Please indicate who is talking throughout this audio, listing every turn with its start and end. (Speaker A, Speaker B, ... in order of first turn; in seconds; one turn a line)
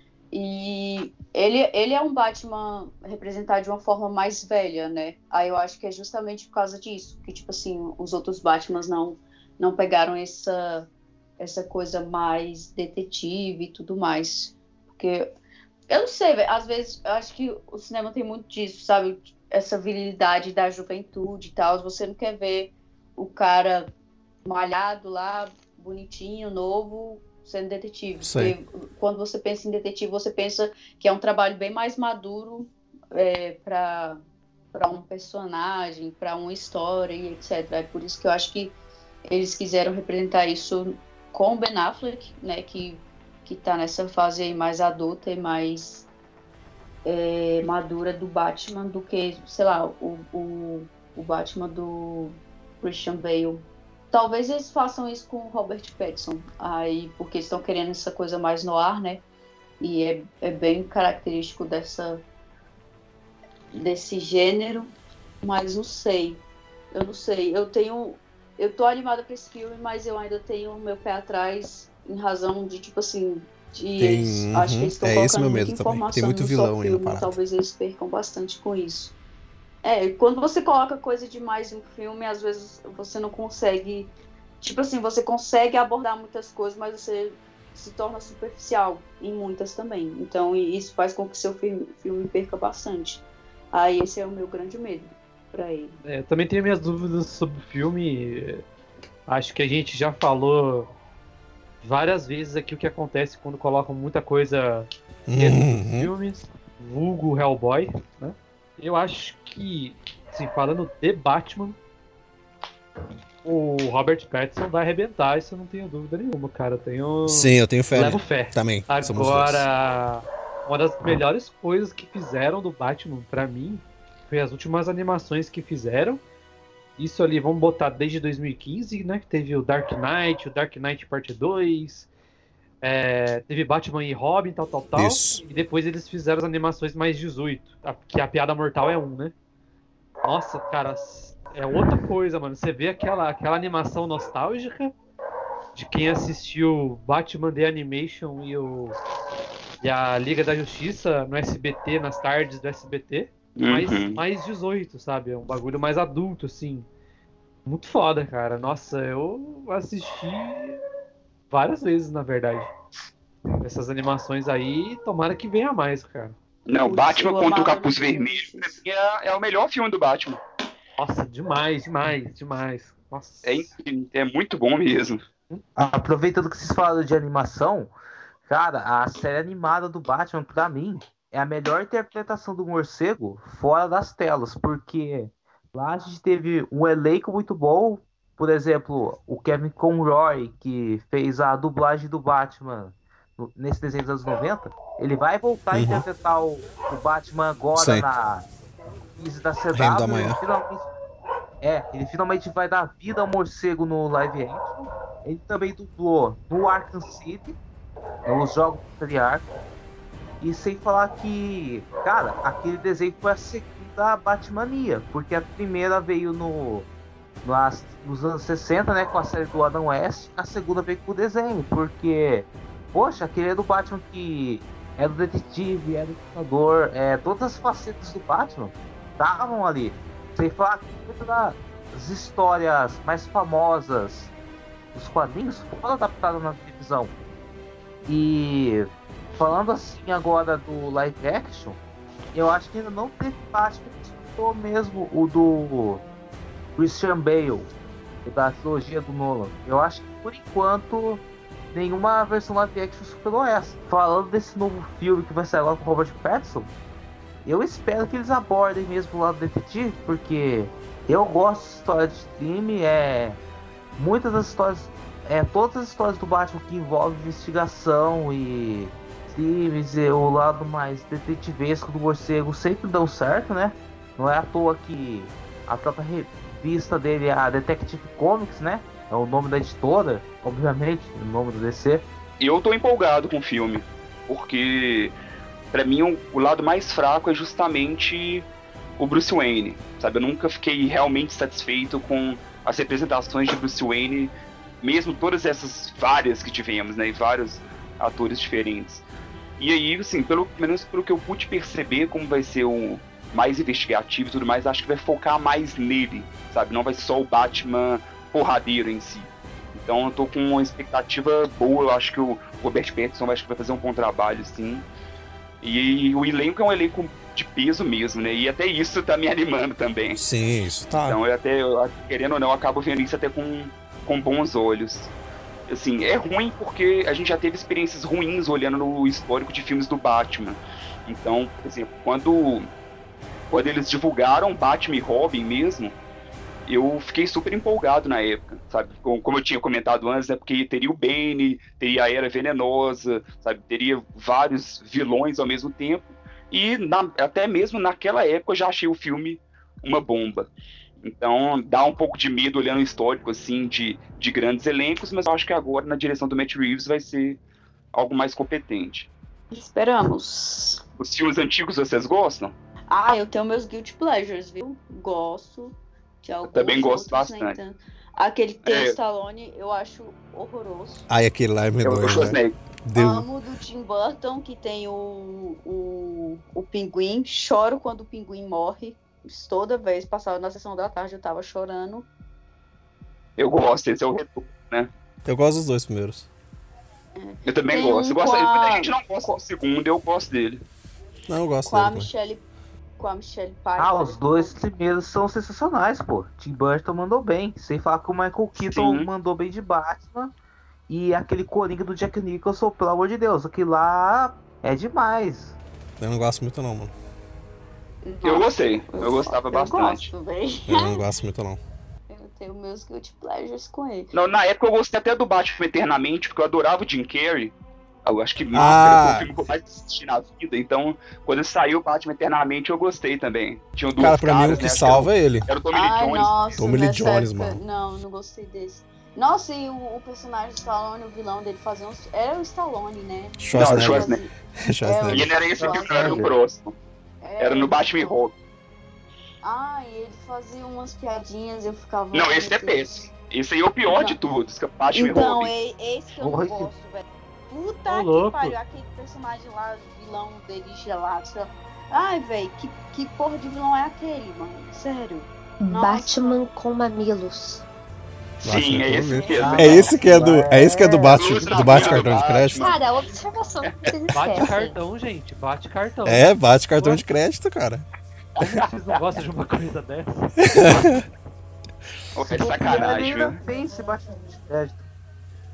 Speaker A: 0.3-15.3
Speaker A: 15.9-23.9
Speaker A: 24.4-34.2
Speaker B: 28.2-28.6
Speaker A: 34.7-38.7
Speaker A: 39.3-46.1
Speaker A: 47.0-59.2
Speaker A: 59.8-62.2
Speaker A: 63.7-79.2
Speaker B: 74.0-77.4
Speaker A: 79.8-96.0
Speaker C: 96.0-98.6
Speaker C: 99.3-100.9
Speaker C: 101.8-111.8
Speaker B: 105.3-106.1
Speaker C: 113.4-126.2
Speaker B: 117.2-119.6
Speaker C: 127.0-132.1
Speaker C: 132.8-139.3
Speaker B: 134.9-135.4
Speaker C: 140.2-144.9
Speaker C: 145.7-148.9
Speaker C: 149.8-156.9
Speaker D: 153.6-154.2
Speaker C: 157.6-160.8
Speaker C: 161.5-162.7
Speaker C: 163.6-166.3
Speaker D: 166.7-170.4
Speaker A: 166.8-168.8
Speaker C: 171.0-173.7
Speaker D: 173.4-175.2
Speaker E: 175.5-177.9
Speaker E: 178.4-198.5
Speaker B: 195.7-196.1
Speaker B: 197.7-198.1
Speaker E: 199.1-200.9
Speaker B: 199.7-200.4
Speaker E: 201.6-207.6
Speaker E: 208.2-209.5
Speaker E: 210.4-216.9
Speaker E: 217.4-234.3
Speaker E: 234.9-237.1
Speaker E: 238.1-241.8
Speaker E: 242.3-246.0
Speaker E: 246.8-247.7
Speaker E: 248.2-256.7
Speaker E: 257.4-263.4
Speaker E: 264.0-282.1
Speaker D: 282.4-285.1
Speaker D: 285.7-288.5
Speaker D: 289.0-299.0
Speaker D: 299.6-314.9
Speaker D: 315.6-320.2
Speaker B: 320.2-321.2
Speaker D: 321.0-325.1
Speaker D: 325.7-332.7
Speaker D: 333.5-335.9
Speaker D: 336.7-350.5
Speaker D: 351.0-357.4
Speaker D: 357.9-359.1
Speaker A: 359.5-360.8
Speaker D: 361.0-362.5
Speaker A: 362.9-371.1
Speaker D: 366.5-367.6
Speaker D: 368.6-368.9
Speaker B: 371.1-373.2
Speaker D: 371.8-372.5
Speaker A: 372.1-372.3
Speaker A: 372.9-382.1
Speaker D: 383.4-384.9
Speaker B: 385.2-386.3
Speaker A: 387.1-389.4
Speaker D: 387.4-390.6
Speaker B: 391.3-392.1
Speaker A: 391.6-392.4
Speaker A: 393.0-394.5
Speaker E: 393.8-400.3
Speaker D: 398.7-399.1
Speaker E: 400.9-405.6
Speaker B: 406.0-406.9
Speaker A: 408.0-411.0
Speaker D: 408.2-410.1
Speaker B: 410.7-411.6
Speaker A: 412.1-414.1
Speaker D: 414.1-417.5
Speaker D: 418.1-426.4
Speaker B: 418.5-419.3
Speaker B: 424.0-425.5
Speaker A: 425.7-434.3
Speaker B: 426.6-427.6
Speaker B: 433.4-436.3
Speaker D: 433.5-434.2
Speaker A: 434.8-436.3
Speaker D: 435.1-436.7
Speaker A: 437.2-438.0
Speaker D: 437.4-438.3
Speaker A: 439.4-443.0
Speaker D: 442.1-445.5
Speaker A: 443.9-444.2
Speaker A: 444.9-456.4
Speaker E: 446.1-446.7
Speaker C: 447.9-448.5
Speaker F: 455.6-457.6
Speaker D: 458.4-460.0
Speaker B: 458.4-462.6
Speaker A: 459.1-459.8
Speaker E: 459.4-462.1
Speaker D: 461.1-462.9
Speaker F: 462.6-464.8
Speaker C: 464.1-467.0
Speaker B: 466.0-467.8
Speaker C: 468.4-470.3
Speaker B: 470.4-471.0
Speaker D: 472.1-473.4
Speaker E: 472.3-474.8